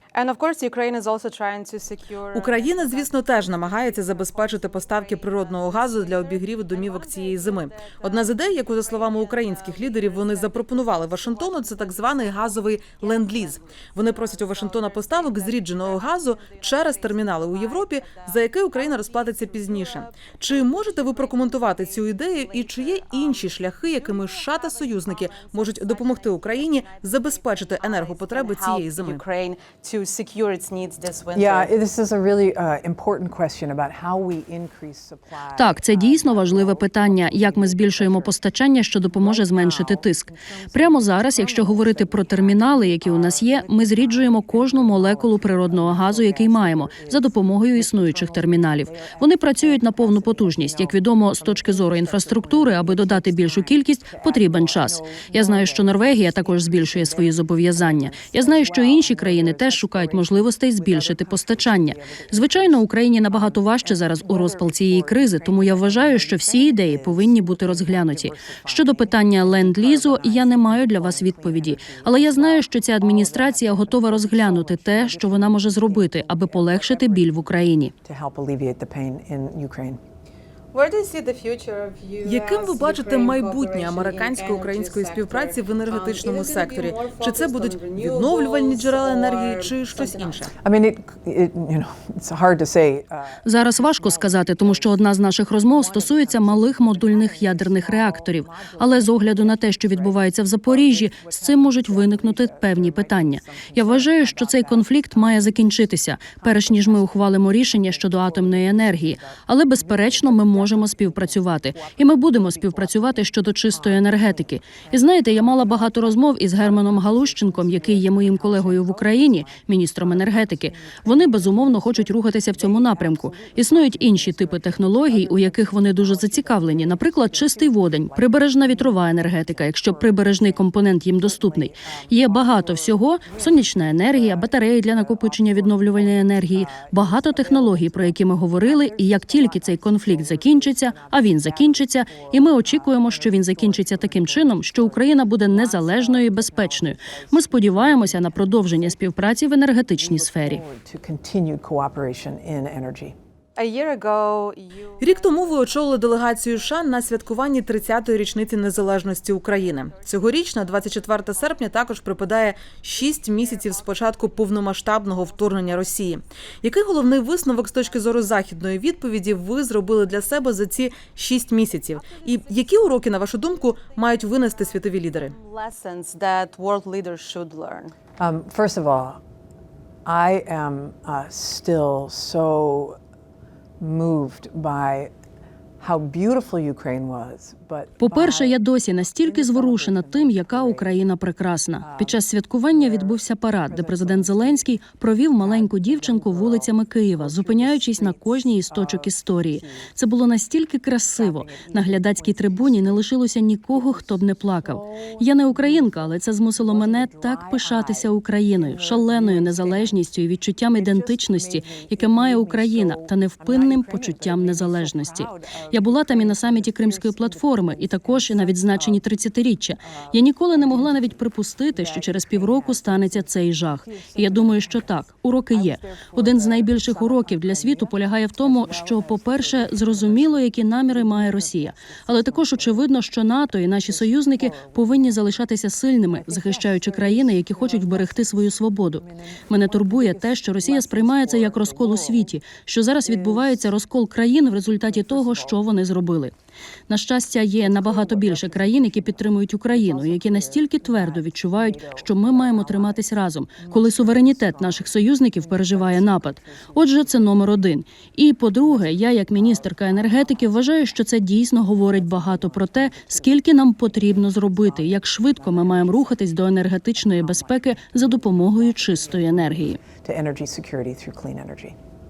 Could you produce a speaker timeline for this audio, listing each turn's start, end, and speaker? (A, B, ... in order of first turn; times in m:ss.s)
0:00.2-0:31.7 A
0:02.3-0:29.2 B
0:31.4-0:38.4 C
0:35.6-1:17.9 D
0:39.0-1:17.5 C
1:18.0-1:20.0 C
1:20.7-1:30.5 A
1:22.2-1:30.5 B
1:30.6-2:29.4 C
1:33.4-2:30.6 D
2:29.9-2:33.2 C
2:33.6-2:46.0 A
2:35.0-2:55.4 B
2:47.3-2:48.6 A
2:51.8-2:57.9 A
2:58.2-2:59.2 C
3:00.0-3:03.0 C
3:03.8-3:05.1 C
3:05.8-3:08.6 C
3:08.0-4:06.3 D
3:09.2-3:11.1 C
3:11.8-3:14.7 C
3:15.4-3:19.9 C
3:21.1-3:23.1 C
3:23.7-3:30.0 C
3:30.7-3:39.1 C
3:39.7-3:52.9 C
3:53.8-3:55.4 C
3:56.1-4:02.4 C
4:03.0-4:03.7 C
4:04.8-4:05.7 C
4:06.9-4:29.8 D
4:07.6-4:17.8 C
4:18.5-4:21.1 C
4:21.6-4:31.8 C